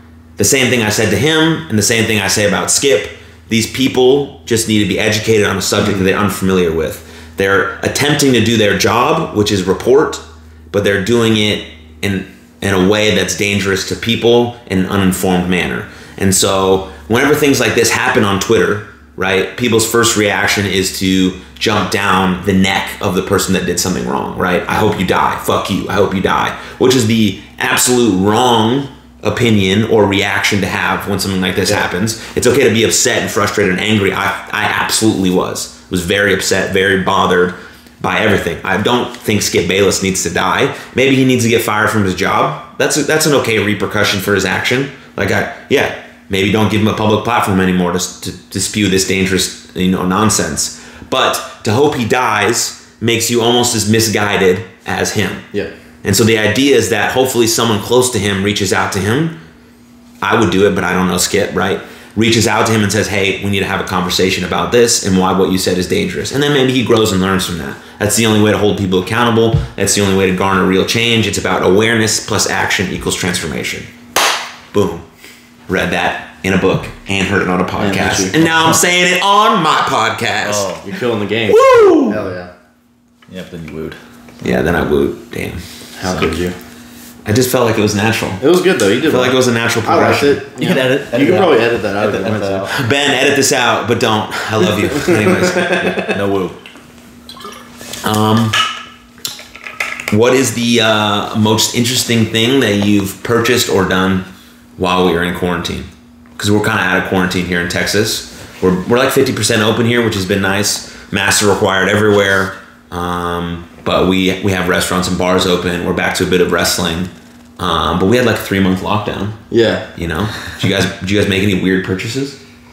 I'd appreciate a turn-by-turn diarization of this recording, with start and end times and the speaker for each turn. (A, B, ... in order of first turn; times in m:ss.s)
0:00.4-0:55.4 A
0:56.0-0:59.4 A
1:00.2-1:13.9 A
1:14.7-1:15.0 A
1:15.7-1:20.7 A
1:17.8-1:18.5 B
1:20.4-1:20.9 C
1:20.8-1:22.5 B
1:21.5-1:22.2 A
1:23.3-1:24.0 C
1:24.4-1:26.3 A
1:26.0-1:26.6 B
1:27.2-1:28.4 A
1:28.4-1:32.7 B
1:29.1-1:30.4 A
1:30.6-1:32.7 C
1:32.7-1:35.9 A
1:34.9-1:36.2 B
1:35.9-1:36.6 C
1:38.0-1:38.6 A
1:40.1-1:59.4 A
1:59.5-1:59.9 B
2:00.0-2:02.4 A